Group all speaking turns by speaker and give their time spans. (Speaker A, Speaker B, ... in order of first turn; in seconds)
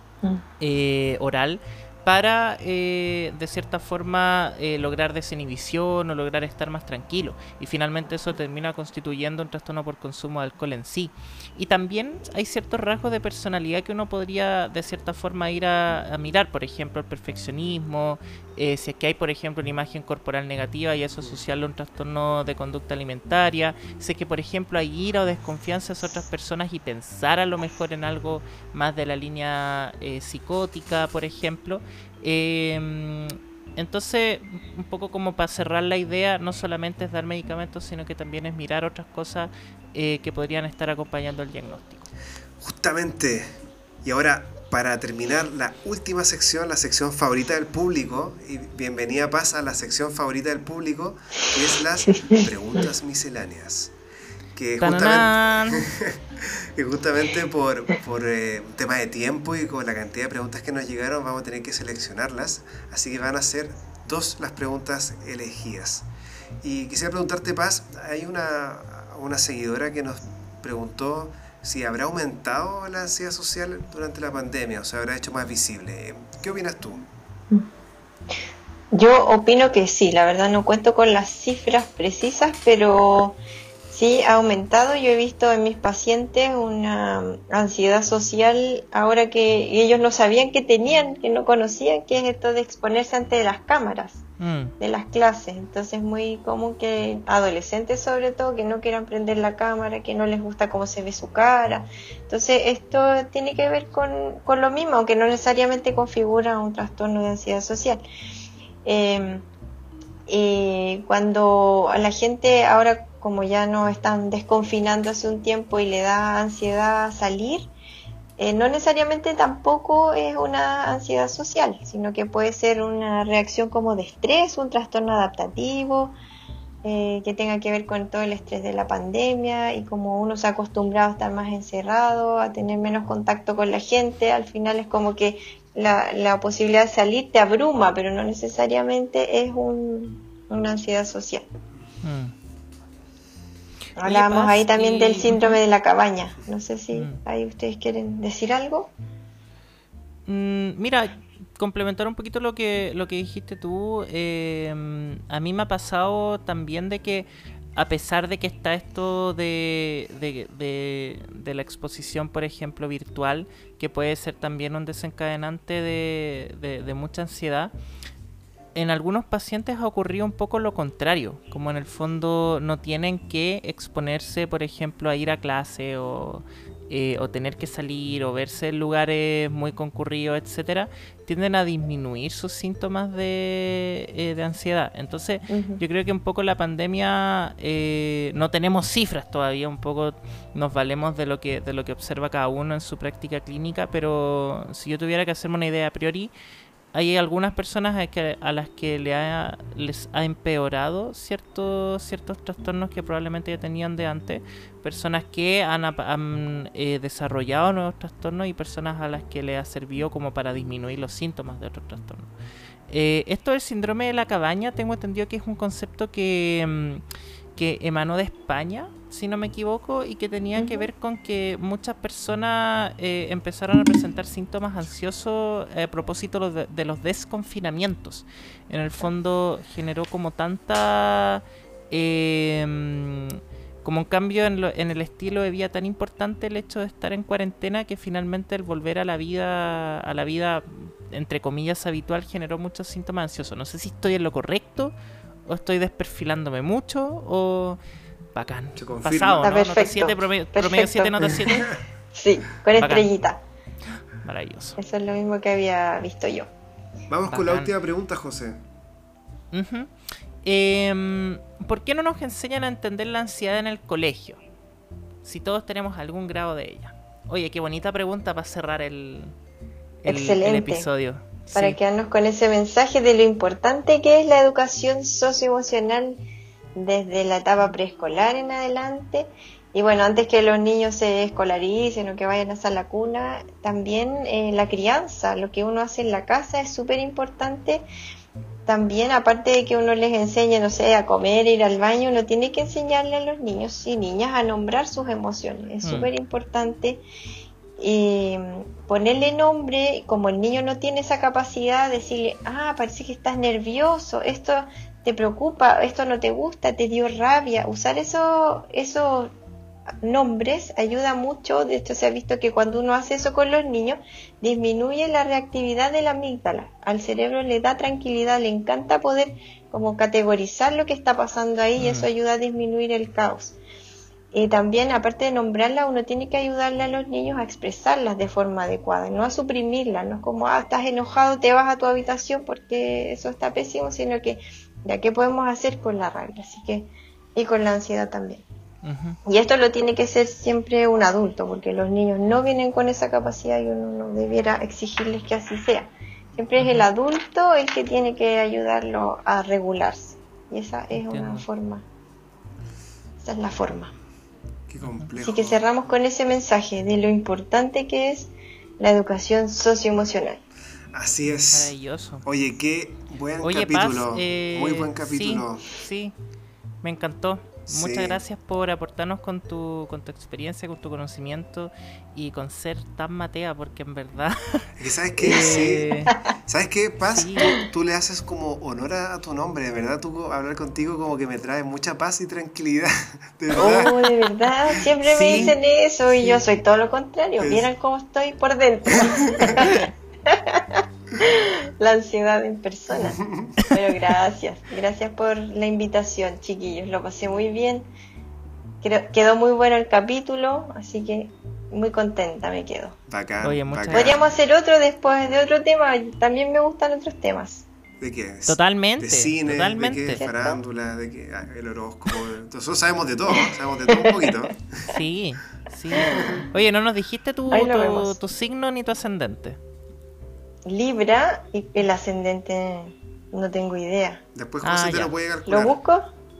Speaker A: 0.6-42.1, 54.8-55.8, 94.4-94.7, 142.0-142.3, 144.0-145.6, 146.9-147.2, 150.2-167.7, 168.7-196.3, 196.9-212.3, 212.9-217.0, 217.6-244.9, 245.4-247.8, 248.3-251.8, 252.8-253.1, 254.2-254.8, 257.3-257.7, 259.5-264.4, 265.2-269.3, 270.0-271.8, 295.8-296.1, 321.8-322.1, 338.8-339.2, 346.6-346.9, 350.9-351.4, 354.8-355.1, 361.5-362.2, 363.4-366.1, 366.8-376.1, 377.0-377.6, 385.0-385.6, 386.1-386.4, 403.4-404.1, 408.5-410.2, 414.9-419.6, 424.6-425.1
Speaker B: 42.6-53.9, 54.5-66.1, 66.6-77.0, 248.8-249.5, 251.5-251.8, 257.1-258.6, 354.7-355.6, 360.9-365.8, 367.7-368.2, 374.8-383.9, 387.4-387.7, 389.1-389.7, 393.0-393.5, 403.1-404.3, 408.0-414.9, 424.3-425.8
Speaker C: 52.1-52.4, 78.9-83.4, 83.9-94.2, 94.8-108.0, 108.8-109.4, 110.3-117.7, 118.4-126.1, 126.8-141.4, 144.0-148.9, 185.5-185.8, 220.6-220.9, 249.4-253.4, 254.8-256.5, 270.1-270.9, 271.5-276.2, 276.8-287.8, 288.7-297.0, 297.8-309.3, 310.0-323.6, 324.3-338.4, 339.2-351.8, 353.2-353.9, 355.2-360.4, 375.2-376.3, 383.5-397.9, 398.8-403.0, 403.9-407.7, 410.1-410.6, 413.3-414.4, 416.0-416.4, 417.5-418.2, 420.6-424.2, 425.4-426.1